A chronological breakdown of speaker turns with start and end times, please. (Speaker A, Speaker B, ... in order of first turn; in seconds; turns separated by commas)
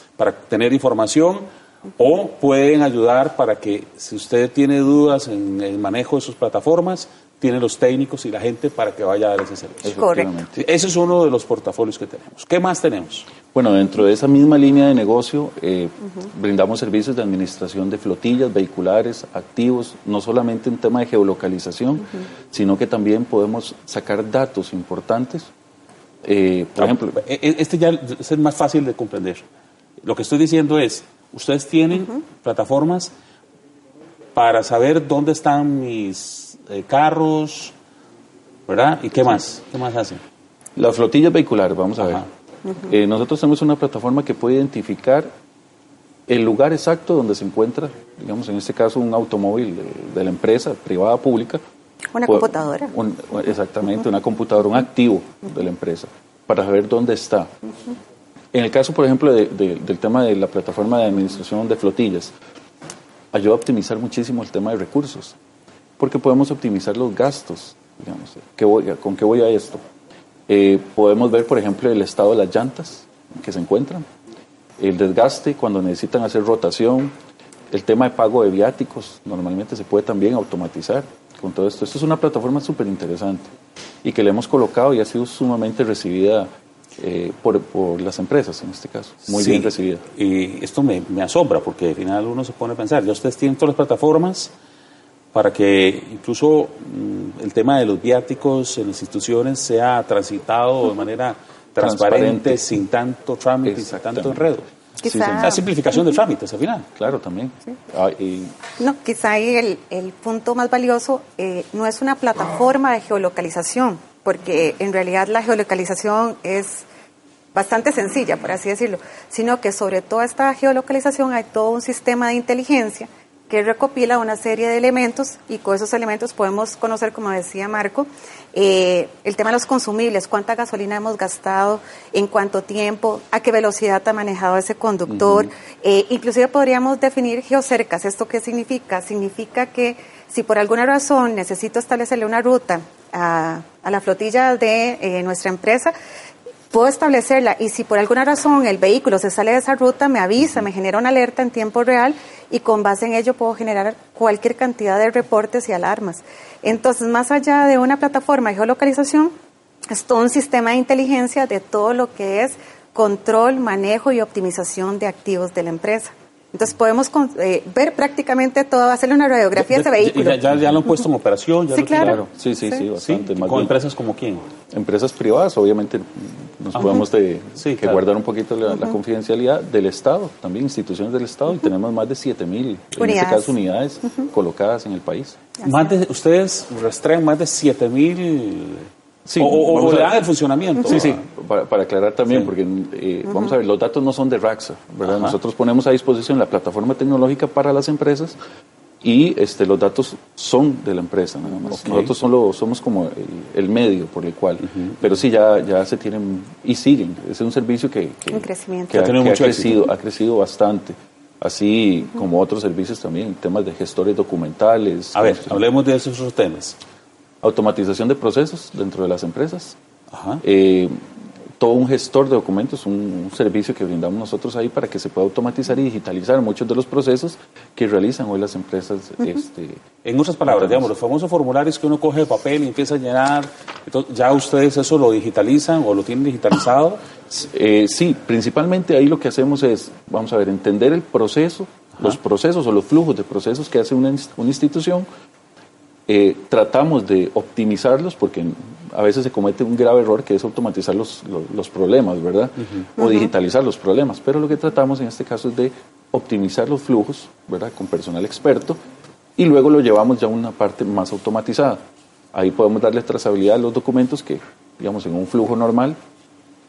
Speaker A: 0.2-10.0, Speaker B: 9.8-10.6, Speaker C: 9.9-10.3, Speaker A: 10.6-13.3, Speaker B: 13.5-25.5, Speaker B: 26.2-27.2, Speaker A: 26.8-29.4, Speaker A: 30.0-33.1, Speaker A: 34.3-37.7, Speaker A: 38.7-40.2, Speaker B: 40.8-42.2, Speaker B: 42.8-45.3, Speaker B: 46.3-51.6, Speaker C: 52.1-52.9, Speaker B: 52.2-57.5, Speaker B: 58.5-62.3, Speaker B: 63.3-65.3, Speaker B: 66.0-69.8, Speaker B: 70.5-74.0, Speaker B: 74.8-77.1, Speaker B: 77.7-83.5, Speaker B: 84.0-90.0, Speaker A: 89.3-94.5, Speaker A: 95.3-104.7, Speaker B: 101.8-102.6, Speaker B: 103.6-104.5, Speaker B: 105.0-105.6, Speaker C: 105.0-105.6, Speaker A: 105.4-106.9, Speaker B: 107.0-108.5, Speaker C: 108.8-116.8, Speaker C: 117.5-145.9, Speaker B: 135.1-135.5, Speaker C: 146.7-159.3, Speaker C: 159.9-170.4, Speaker A: 169.6-172.2, Speaker C: 171.7-172.2, Speaker B: 172.0-173.7, Speaker A: 173.0-174.5, Speaker B: 174.7-185.4, Speaker A: 176.7-177.0, Speaker A: 177.6-178.0, Speaker C: 183.0-183.6, Speaker C: 185.6-185.9, Speaker A: 185.6-188.9, Speaker B: 189.2-190.2, Speaker A: 189.4-191.2, Speaker B: 190.8-198.4, Speaker A: 195.0-195.4, Speaker B: 199.0-215.6, Speaker A: 201.8-202.1, Speaker A: 204.6-205.0, Speaker C: 208.3-209.0, Speaker A: 208.9-209.9, Speaker A: 215.1-216.8, Speaker B: 217.4-219.8, Speaker A: 220.1-220.4, Speaker B: 220.4-221.0, Speaker B: 221.6-229.8, Speaker A: 230.0-237.0, Speaker B: 230.4-230.9, Speaker B: 237.3-245.1, Speaker B: 246.1-258.8, Speaker B: 259.4-266.0